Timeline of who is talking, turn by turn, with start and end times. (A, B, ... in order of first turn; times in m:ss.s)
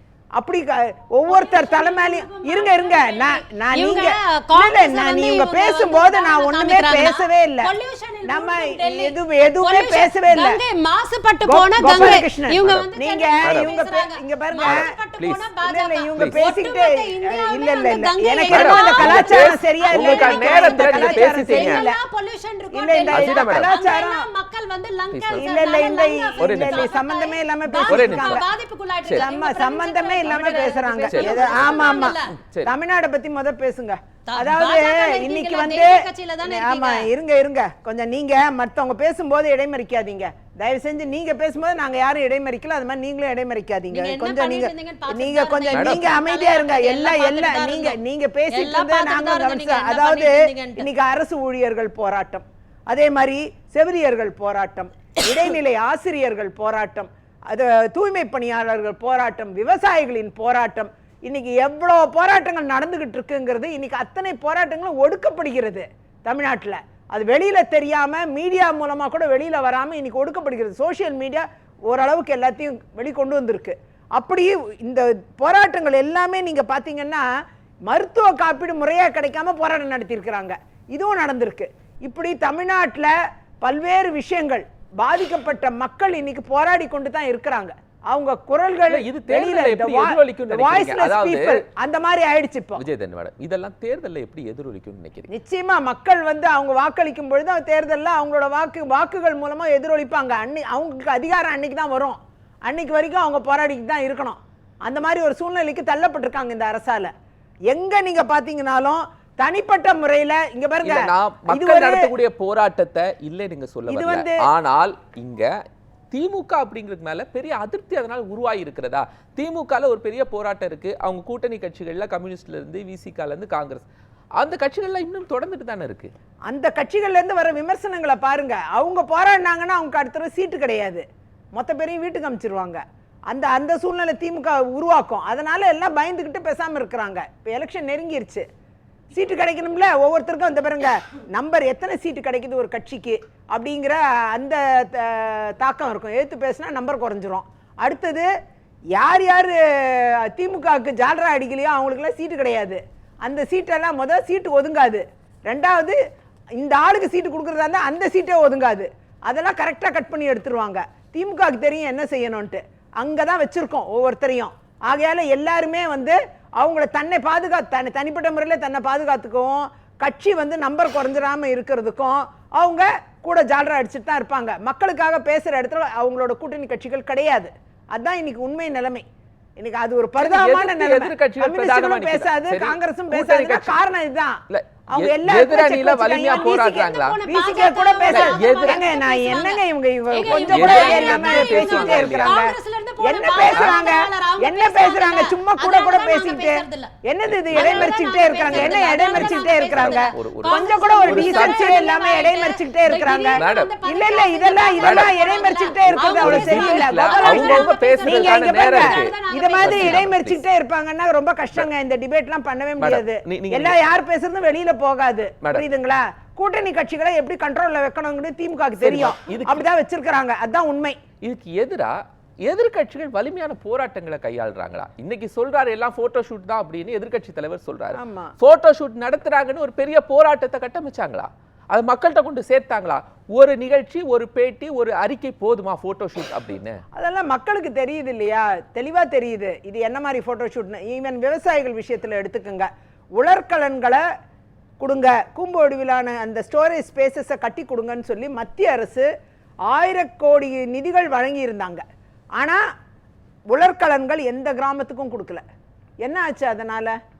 0:00.4-0:07.7 A
0:01.3-0:32.3 B
0:08.2-0:10.6 A
0:11.4-0:14.9 A
0:12.6-0:12.9 C
0:13.4-0:13.7 C
0:14.6-0:15.4 C
0:15.6-0:22.0 A
0:18.5-0:21.8 C
0:22.7-0:24.2 A
0:23.1-0:23.7 C
0:25.1-0:25.5 C
0:25.4-0:28.4 A
0:26.4-0:26.9 C
0:27.8-0:28.4 C
0:29.1-1:17.3 A
0:31.1-0:32.7 C
0:34.3-0:37.1 B
0:43.9-0:48.0 B
0:45.7-0:46.1 C
0:48.5-0:50.9 B
1:17.9-1:32.8 A
1:28.9-1:31.6 C
1:32.8-1:35.3 C
1:35.3-1:47.1 A
1:47.7-1:52.1 A
1:50.8-1:55.5 C
1:53.9-1:54.4 A
1:56.1-2:03.8 C
2:04.4-2:06.1 C
2:06.5-2:11.0 A
2:11.5-2:18.4 A
2:19.1-2:28.3 A
2:28.9-2:36.0 A
2:36.6-2:59.0 A
2:59.6-3:41.0 A
3:00.2-3:03.8 C
3:04.5-3:07.2 C
3:06.8-3:16.9 B
3:08.1-3:08.8 C
3:10.2-3:12.4 C
3:17.5-3:21.7 C
3:17.5-3:30.1 B
3:23.4-3:23.7 C
3:24.8-3:25.1 C
3:25.9-3:30.4 C
3:32.8-3:33.8 C
3:38.8-3:39.7 C
3:41.2-3:41.9 C
3:42.4-3:56.8 C
3:47.9-3:48.3 A
3:56.9-4:04.0 A
4:04.8-4:09.1 A
4:09.7-4:11.8 A
4:13.5-4:15.4 A
4:16.0-4:16.9 A